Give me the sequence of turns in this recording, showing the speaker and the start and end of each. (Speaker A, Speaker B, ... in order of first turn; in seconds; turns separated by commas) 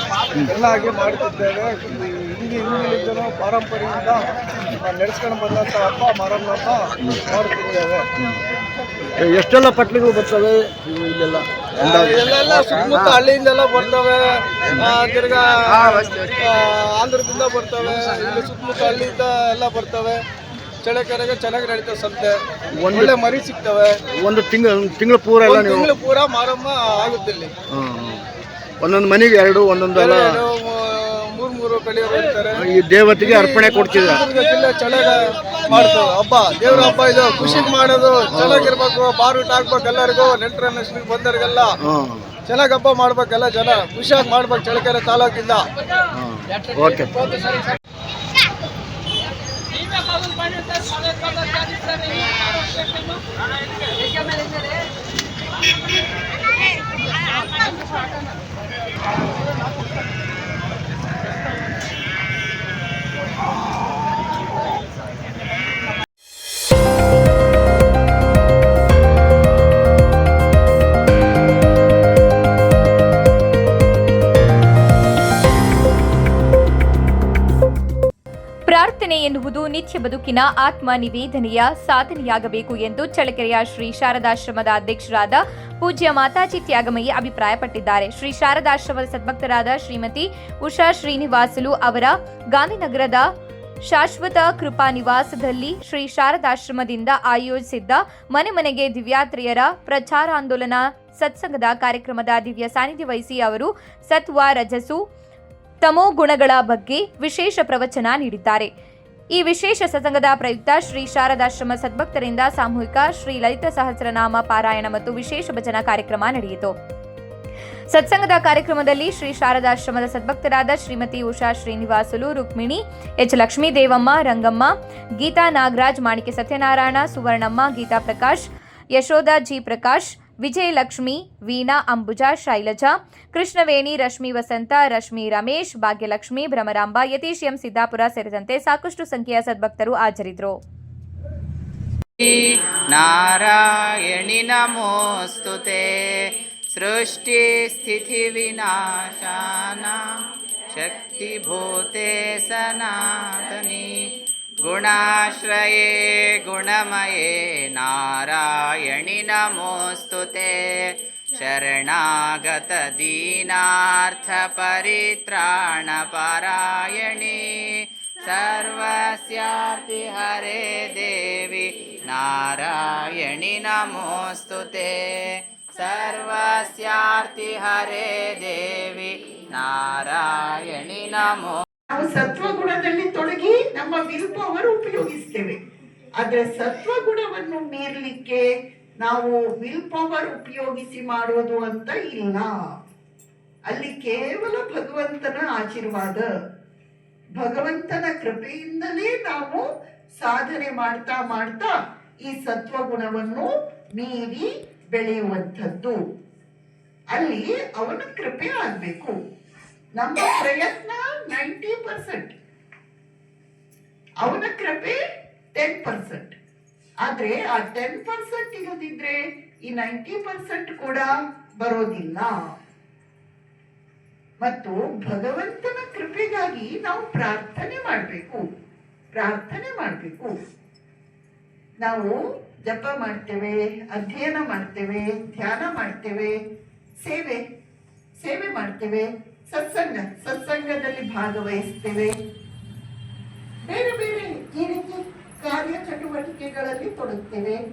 Speaker A: 0.5-8.1, Speaker B: 9.2-13.2, Speaker A: 11.8-20.2, Speaker B: 15.7-16.2, Speaker A: 20.8-24.0, Speaker B: 22.8-23.2, Speaker B: 24.2-25.9, Speaker A: 25.4-27.5, Speaker B: 27.7-28.2, Speaker B: 28.8-30.4, Speaker A: 29.9-41.8, Speaker B: 32.6-34.2, Speaker B: 35.7-35.9, Speaker B: 36.7-37.8, Speaker B: 38.3-38.7, Speaker B: 41.8-42.3, Speaker A: 42.5-45.7, Speaker B: 46.1-47.3, Speaker C: 78.7-93.2, Speaker C: 93.9-105.0, Speaker C: 105.8-108.7, Speaker C: 109.3-116.7, Speaker C: 117.9-140.6, Speaker D: 142.2-150.2, Speaker D: 150.7-181.6, Speaker E: 181.9-185.6, Speaker E: 186.2-188.5, Speaker E: 189.0-192.5, Speaker E: 193.7-196.3, Speaker E: 197.4-199.6, Speaker E: 200.2-206.0, Speaker E: 207.1-209.2, Speaker E: 210.0-212.3, Speaker E: 214.2-215.0, Speaker E: 215.6-216.3, Speaker E: 217.1-222.4, Speaker E: 224.4-228.4, Speaker E: 229.2-230.3, Speaker E: 231.8-232.1, Speaker E: 232.7-236.3, Speaker E: 237.0-237.4, Speaker E: 238.2-242.1, Speaker E: 243.6-247.6